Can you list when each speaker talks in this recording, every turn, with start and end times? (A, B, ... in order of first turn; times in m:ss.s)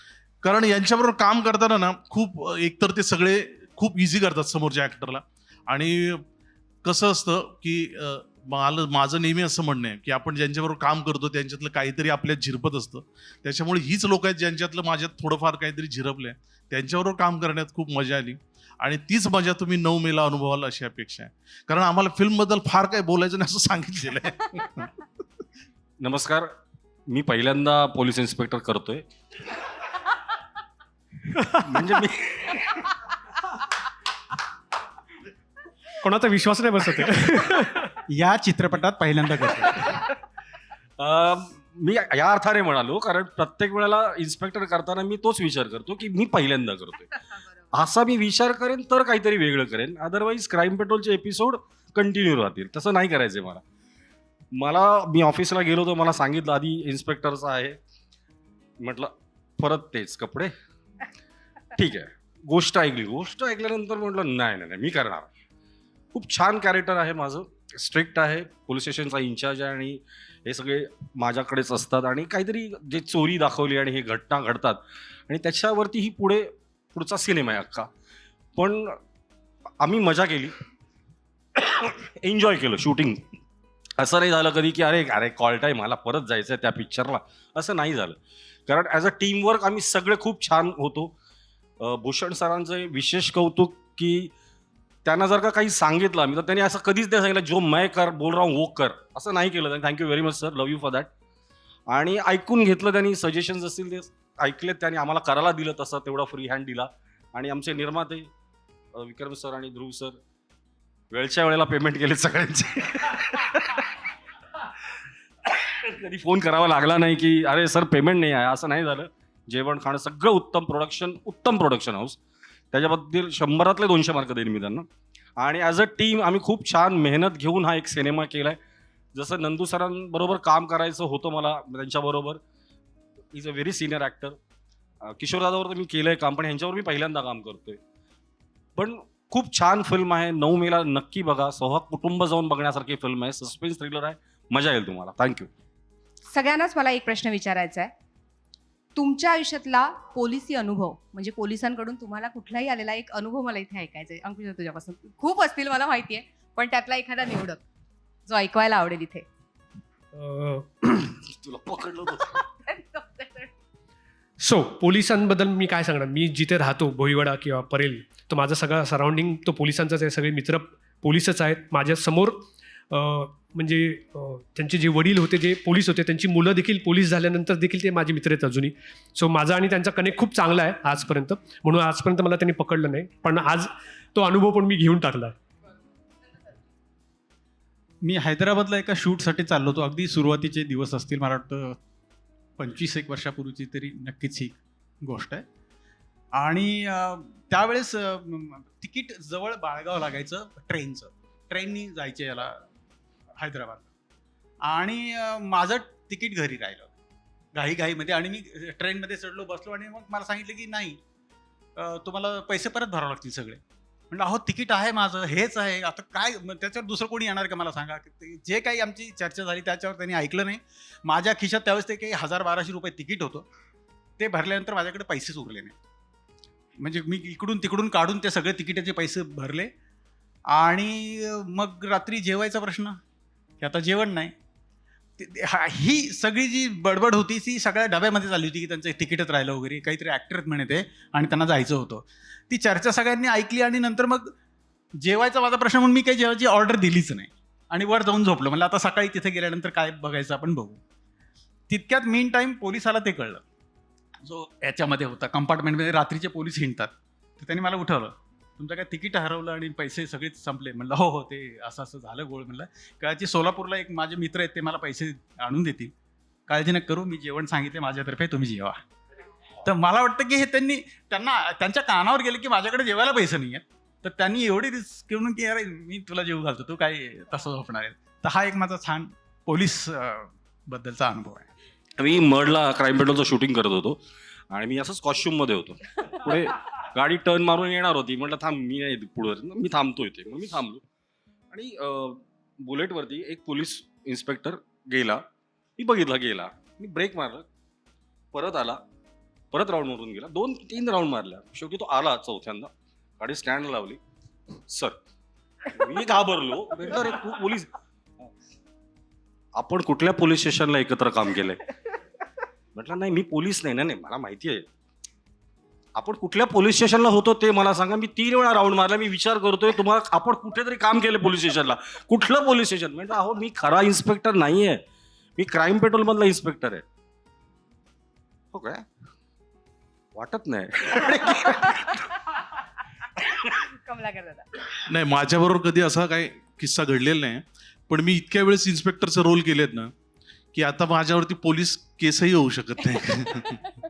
0:00.4-0:06.2 A
0:06.8-0:24.9 A
0:26.0-0:26.5 B
0:27.1-0:29.0 B
0:31.3-0:31.6 C
0:31.6-0:33.0 B
0:36.0-0:38.0 C
0:38.1-0:40.0 D
0:41.0-0:47.2 B
0:47.7-0:53.6 B
0:54.6-0:57.8 B
0:58.8-1:00.5 B
1:01.8-1:05.3 B
1:06.1-1:17.9 B
1:18.6-1:19.0 B
1:19.8-1:20.6 B
1:21.6-1:23.2 B
1:24.0-1:31.1 B
1:31.8-1:34.3 B
1:35.0-1:41.1 B
1:41.9-1:48.3 B
1:49.0-1:50.2 B
1:51.1-1:53.9 B
1:55.4-2:02.2 B
2:02.7-2:04.9 B
2:05.4-2:08.6 B
2:09.2-2:12.4 B
2:13.3-2:14.4 B
2:15.0-2:17.8 B
2:18.8-2:25.5 B
2:26.3-2:27.9 E
2:29.0-2:37.6 E
2:38.3-2:39.2 E
2:40.1-2:40.9 C
2:41.2-2:42.4 B
2:42.7-2:43.5 E
2:44.4-3:05.4 C
3:08.0-3:11.8 D
3:12.6-3:15.4 D
3:16.3-3:22.6 D
3:23.4-3:23.9 D
3:24.6-3:26.9 D
3:27.6-3:31.0 D
3:31.8-3:43.4 D
3:44.2-3:45.7 D
3:46.8-3:49.7 D
3:50.5-3:53.0 D
3:53.6-3:54.3 D
3:55.2-4:04.3 D
4:05.0-4:10.8 D
4:11.7-4:13.4 D
4:14.2-4:25.9 D
4:26.5-4:28.8 D
4:29.6-4:41.5 D
4:42.0-4:44.0 B
4:44.5-4:50.8 B
4:51.5-4:55.2 B
4:55.8-4:57.5 B
4:58.3-4:58.8 B
4:59.5-5:04.0 B
5:04.7-5:05.0 B
5:05.7-5:07.7 B
5:09.6-5:11.7 B
5:12.8-5:14.7 B
5:16.0-5:24.8 B
5:25.4-5:26.8 B
5:28.5-5:28.9 B
5:30.2-5:32.1 B
5:33.8-5:34.5 E
5:34.9-5:39.9 A
5:40.5-5:43.6 A